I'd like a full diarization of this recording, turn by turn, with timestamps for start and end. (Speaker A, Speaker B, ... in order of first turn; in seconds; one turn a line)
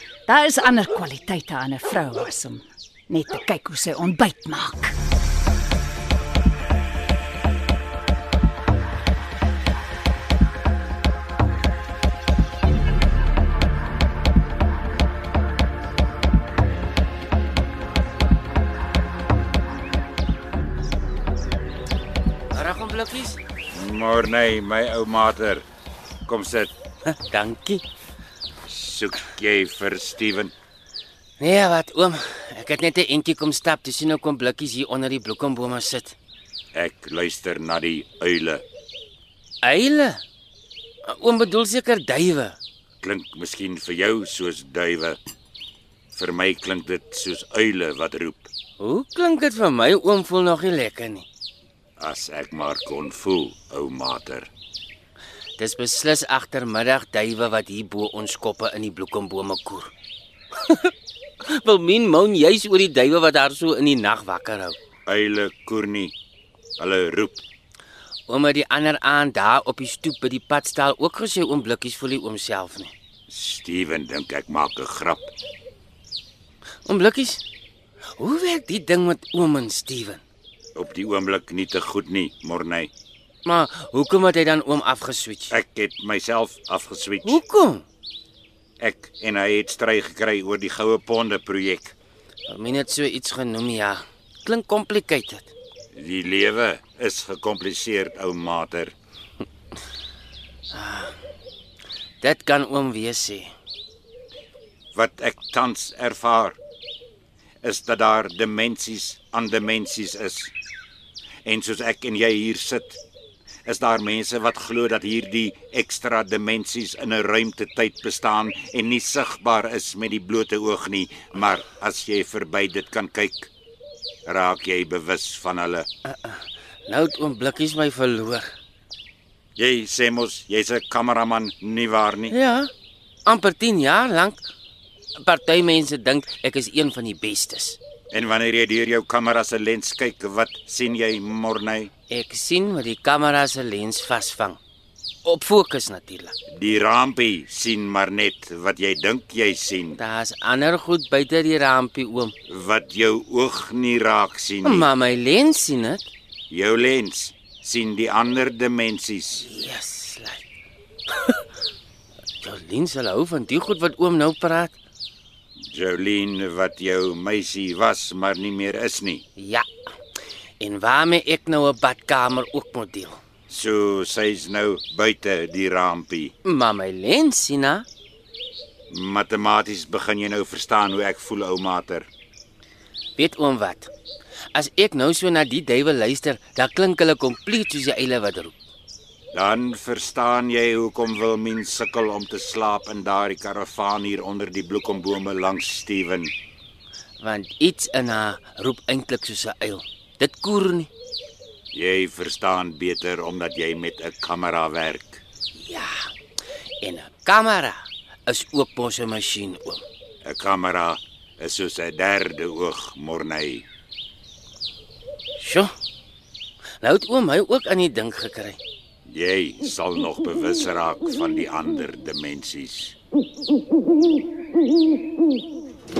Speaker A: 0.2-4.9
Speaker B: 22.5-23.4
Speaker C: 23.7-25.6
Speaker C: 26.2-26.7
Speaker B: 27.1-27.8
Speaker C: 28.7-30.5
Speaker B: 31.4-36.1
Speaker C: 36.7-38.6
Speaker B: 39.6-40.2
Speaker B: 41.1-42.6
Speaker C: 43.0-45.2
Speaker C: 46.1-48.5
Speaker B: 48.8-51.2
Speaker C: 52.0-54.5
Speaker B: 55.6-59.9
Speaker B: 61.4-64.8
Speaker C: 65.0-66.1
Speaker C: 66.8-67.4
Speaker B: 68.3-72.9
Speaker C: 73.3-75.3
Speaker B: 76.8-77.4
Speaker B: 78.2-80.2
Speaker C: 80.7-82.9
Speaker B: 83.4-85.5
Speaker C: 85.5-87.4
Speaker B: 87.2-87.8
Speaker C: 88.8-91.9
Speaker B: 92.5-95.5
Speaker C: 95.9-98.9
Speaker B: 100.7-101.1
Speaker B: 102.2-103.5
Speaker C: 104.9-106.6
Speaker C: 107.6-110.5
Speaker C: 111.4-113.0
Speaker C: 113.7-123.5
Speaker C: 124.2-125.9
Speaker B: 126.0-128.5
Speaker C: 129.6-132.3
Speaker B: 132.4-132.7
Speaker B: 133.2-134.4
Speaker B: 135.2-137.8
Speaker C: 138.1-141.9
Speaker B: 142.1-144.6
Speaker B: 145.2-146.3
Speaker C: 146.5-150.0
Speaker B: 150.0-152.3
Speaker C: 152.5-154.9
Speaker B: 154.7-156.0
Speaker C: 156.5-159.4
Speaker B: 159.5-160.4
Speaker B: 162.4-164.7
Speaker C: 165.7-169.2
Speaker B: 170.6-173.2
Speaker C: 173.5-176.3
Speaker B: 176.5-177.8
Speaker C: 178.9-182.1
Speaker B: 183.2-183.9
Speaker B: 184.5-188.5
Speaker C: 189.3-196.3
Speaker B: 197.2-200.9
Speaker C: 201.7-205.2
Speaker B: 205.6-205.9
Speaker B: 206.8-209.8
Speaker C: 210.2-213.6
Speaker B: 215.4-215.7
Speaker B: 216.8-218.6
Speaker C: 219.1-222.9